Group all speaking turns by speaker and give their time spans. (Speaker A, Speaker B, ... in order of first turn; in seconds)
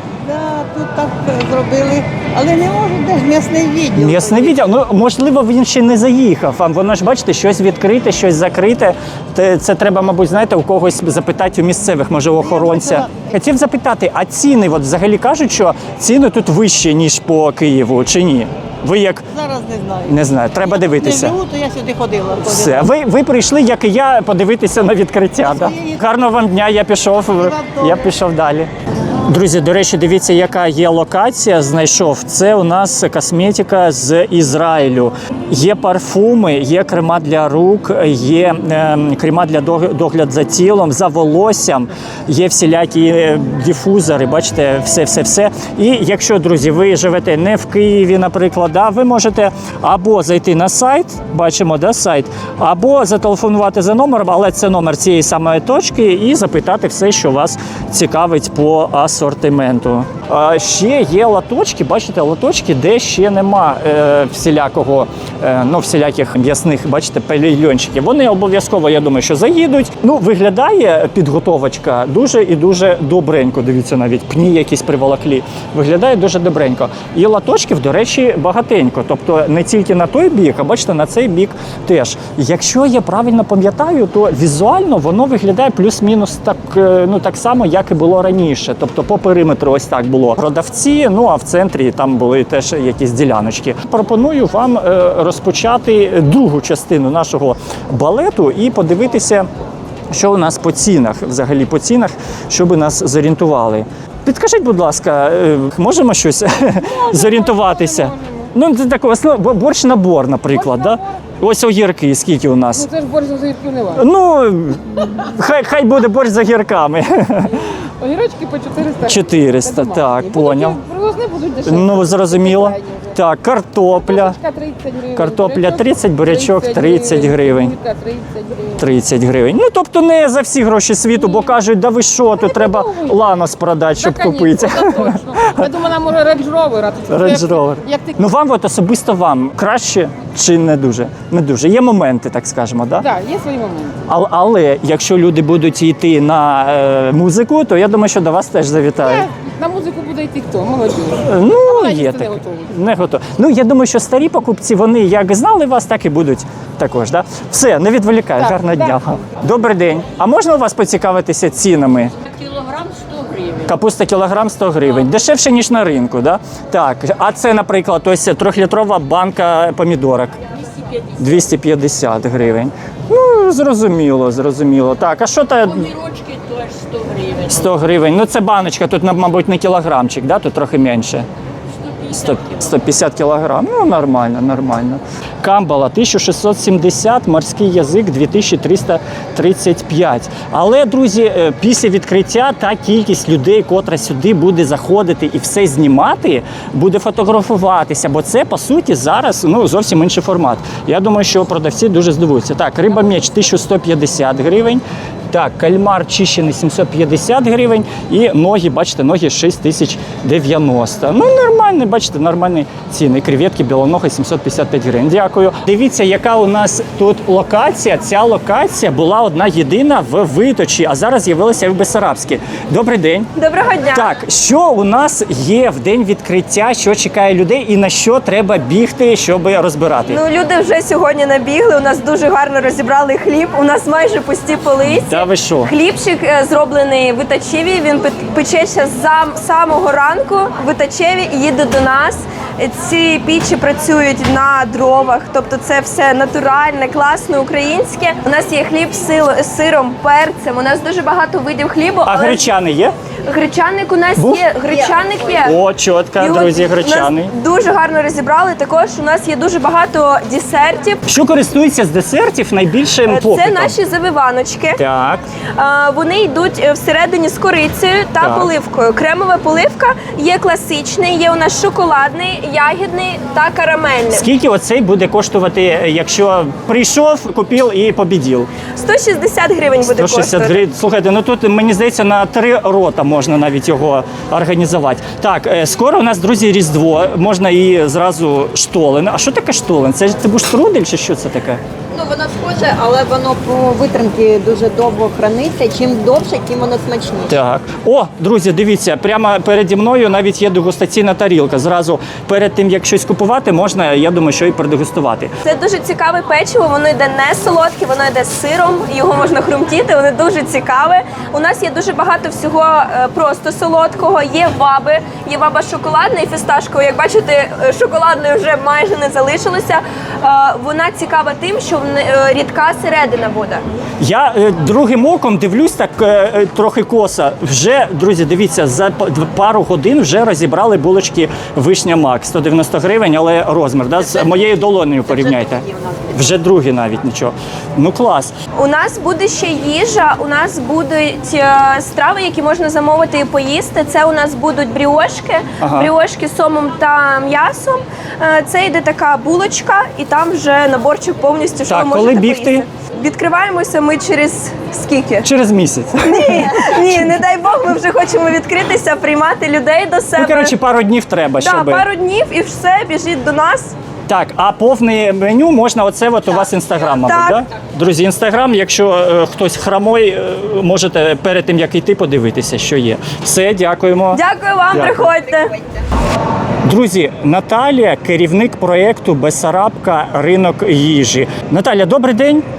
Speaker A: 0.2-4.6, 12.4-13.3, 19.3-22.9, 25.4-26.0, 27.4-28.1
Speaker B: 4.0-19.2, 20.1-21.4, 22.4-28.7, 29.2-99.5, 100.1-112.9, 113.9-117.7, 119.0-120.8, 121.6-124.4, 125.1-127.7, 128.8-135.7, 137.1-143.1, 144.1-149.2, 151.2-162.1, 163.6-170.3, 171.2-176.0, 177.2-181.3, 182.0-223.3, 223.9-230.2, 235.1-235.7, 252.1-252.9, 254.2-254.5, 255.4-257.3, 261.1-263.8, 264.8-265.2, 268.2-268.5, 274.1-278.5, 280.0-291.6, 297.3-305.3, 324.0-338.4, 345.6-345.9, 351.7-352.6, 355.2-357.2, 360.2-361.8, 364.1-374.2, 374.7-375.1, 376.6-382.4
Speaker C: 106.8-108.5, 110.5-111.2, 112.7-114.0, 117.5-123.2, 124.0-128.8, 131.2-131.5, 132.4-133.2, 134.0-138.1, 143.0-144.0, 149.0-152.7, 158.4-158.9
Speaker D: 223.3-224.1, 230.1-252.5, 253.2-255.6, 256.2-261.0, 263.1-264.8, 265.6-274.3, 278.7-280.6, 305.4-323.6, 338.5-355.3, 356.0-360.5, 361.4-363.7, 367.0-367.4, 374.1-375.6
Speaker E: 292.1-297.3